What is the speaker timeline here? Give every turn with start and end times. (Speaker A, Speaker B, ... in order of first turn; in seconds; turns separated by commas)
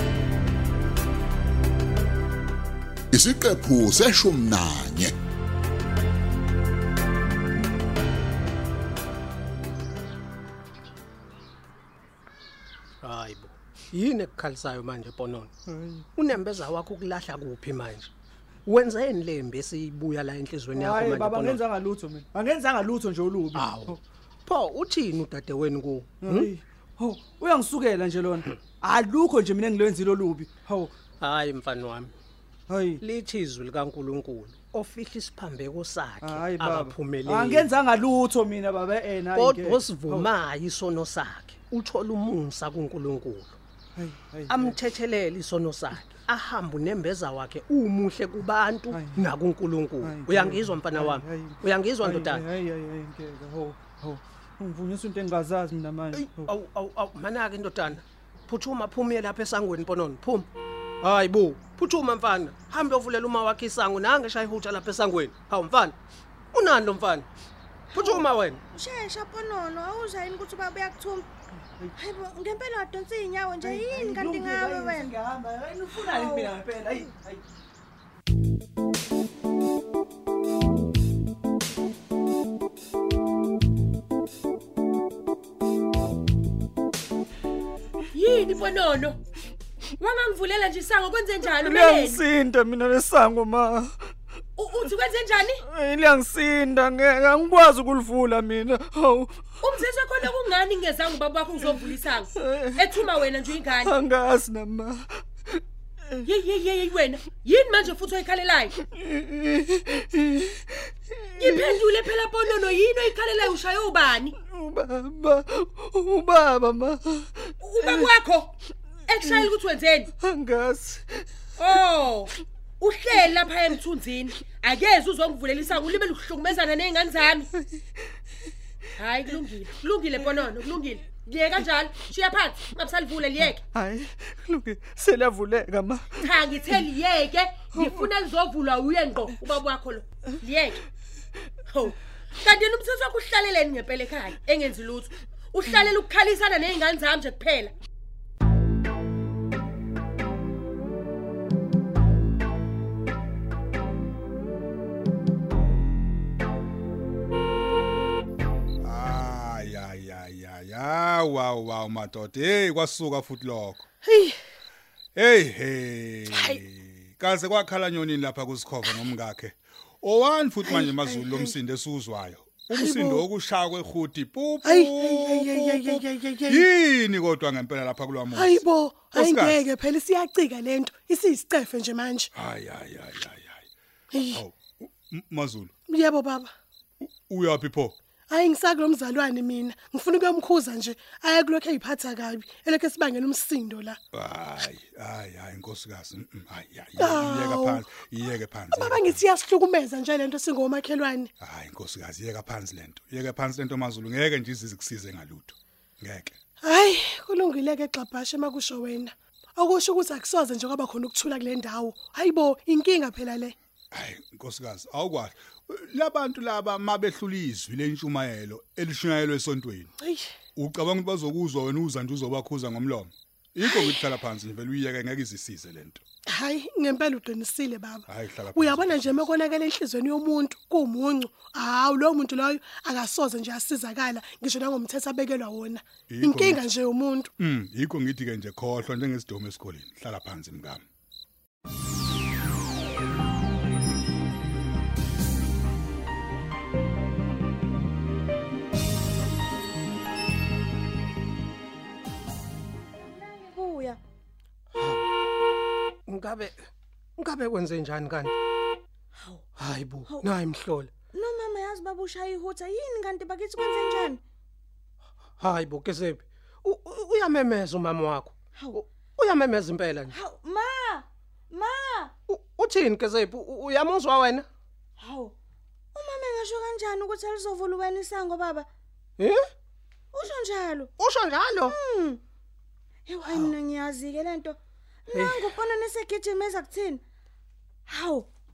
Speaker A: 3.1-5.2, Speaker B: 13.0-15.5, Speaker C: 15.7-16.1, Speaker B: 16.2-18.1, Speaker B: 18.7-21.6, Speaker C: 20.7-24.0, Speaker B: 23.6-23.9, Speaker B: 24.5-26.5, Speaker C: 26.2-30.9, Speaker B: 31.2-32.1, Speaker C: 32.7-33.0, Speaker B: 33.0-37.7, Speaker C: 36.2-40.3, Speaker B: 39.4-43.6, Speaker C: 44.0-44.7, Speaker B: 44.5-52.5, Speaker C: 48.9-49.3, Speaker C: 50.0-56.5, Speaker B: 56.4-60.5, Speaker B: 61.0-66.0, Speaker B: 66.5-67.3, Speaker D: 67.9-71.3, Speaker B: 68.0-68.6, Speaker D: 72.0-75.2, Speaker C: 73.6-77.4, Speaker D: 75.9-77.0, Speaker E: 88.1-89.2, Speaker E: 90.0-92.2, Speaker C: 91.4-94.0, Speaker E: 94.6-95.6, Speaker C: 95.6-99.4, Speaker E: 99.6-104.0, Speaker C: 102.3-102.9, Speaker C: 103.8-106.2, Speaker E: 106.2-108.8, Speaker C: 108.8-111.7, Speaker E: 111.4-114.4, Speaker C: 114.4-118.1, Speaker E: 117.6-118.5, Speaker E: 119.1-120.1, Speaker C: 120.2-121.3, Speaker E: 121.6-127.5, Speaker E: 129.0-133.6, Speaker C: 133.7-136.3, Speaker E: 136.2-140.8, Speaker E: 141.7-147.8, Speaker F: 158.8-163.8, Speaker G: 164.1-164.4, Speaker F: 165.2-178.6, Speaker G: 166.3-166.6, Speaker G: 170.7-171.6, Speaker G: 172.7-173.2, Speaker G: 174.7-176.6, Speaker G: 178.3-182.3, Speaker F: 179.1-179.6, Speaker F: 182.3-183.6, Speaker G: 184.1-184.4, Speaker F: 184.3-185.7, Speaker G: 185.9-186.5, Speaker F: 187.3-187.9, Speaker G: 188.3-194.0, Speaker F: 194.1-199.1, Speaker G: 197.0-197.8, Speaker G: 198.7-201.3, Speaker F: 201.4-206.3, Speaker G: 206.6-213.6, Speaker F: 213.9-219.9, Speaker G: 220.0-220.3, Speaker F: 220.6-226.0, Speaker G: 223.7-223.9, Speaker G: 226.3-237.3, Speaker F: 228.1-229.2, Speaker F: 236.1-236.6, Speaker F: 237.4-240.8, Speaker D: 253.0-254.0, Speaker B: 254.8-255.1, Speaker B: 256.1-256.7, Speaker B: 257.2-258.3, Speaker D: 259.2-259.5, Speaker B: 259.6-260.9, Speaker D: 261.1-264.2, Speaker B: 265.4-270.1, Speaker D: 268.6-268.8, Speaker D: 270.1-272.1, Speaker B: 272.3-274.5, Speaker D: 275.0-275.4, Speaker D: 275.9-278.7, Speaker D: 280.1-280.9, Speaker B: 281.0-281.8, Speaker D: 281.6-282.2, Speaker D: 283.1-287.0, Speaker B: 285.1-285.5, Speaker D: 287.9-288.3